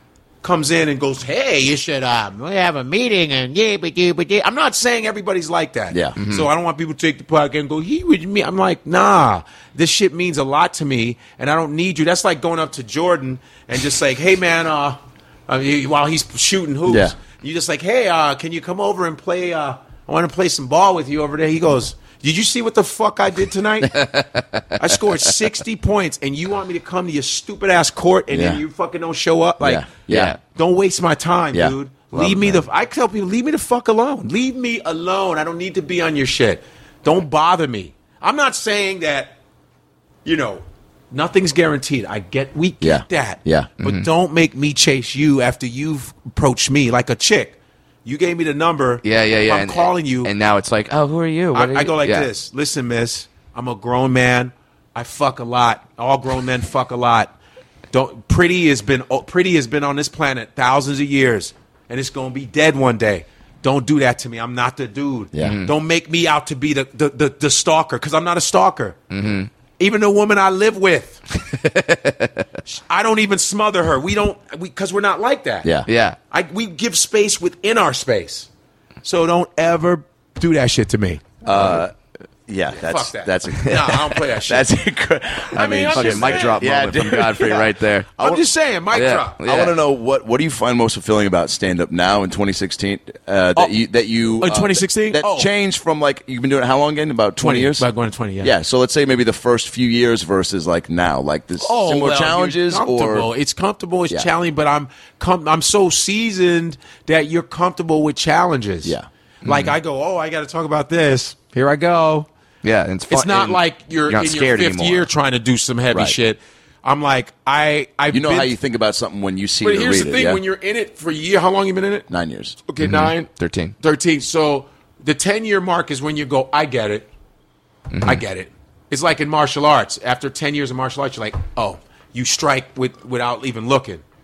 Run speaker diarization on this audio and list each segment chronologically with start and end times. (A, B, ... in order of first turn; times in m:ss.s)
0:00.4-0:24.1 A
0:05.9-0:06.2 B
0:06.2-0:06.5 C
0:16.8-0:17.1 B
0:23.9-0:25.0 C
0:24.8-0:29.9 A
0:28.3-0:28.6 B
0:29.6-0:30.4 B
0:30.1-0:30.4 C
0:30.4-0:39.4 A
0:32.1-0:32.6 C
0:40.2-0:50.3 A
0:42.8-0:43.7 B
0:43.8-0:44.1 C
0:49.0-0:52.3 C
0:51.5-0:57.3 A
0:57.9-1:09.0 A
1:05.3-1:05.6 B
1:05.4-1:05.7 C
1:09.1-1:09.5 C
1:09.8-1:11.2 A
1:11.3-1:12.5 C
1:12.7-1:15.7 A
1:15.6-1:15.9 B
1:15.9-1:16.2 C
1:16.3-1:18.5 A
1:19.0-1:21.8 A
1:21.4-1:21.9 B
1:22.5-1:27.7 B
1:22.7-1:24.7 A
1:25.5-1:26.6 A
1:25.6-1:28.4 C
1:28.2-1:29.4 A
1:28.9-1:29.8 C
1:29.4-1:37.8 B
1:34.4-1:35.5 A
1:37.4-1:38.5 A
1:38.4-1:43.3 B
1:41.6-1:52.3 A
1:49.4-1:49.8 C
1:52.6-1:55.1 C
1:53.1-1:58.5 A
1:58.1-2:00.4 B
1:59.6-2:02.1 A
2:02.1-2:02.6 B
2:02.7-2:03.3 A
2:02.8-2:03.7 C
2:03.8-2:07.1 A
2:07.9-2:08.2 C
2:08.0-2:14.0 A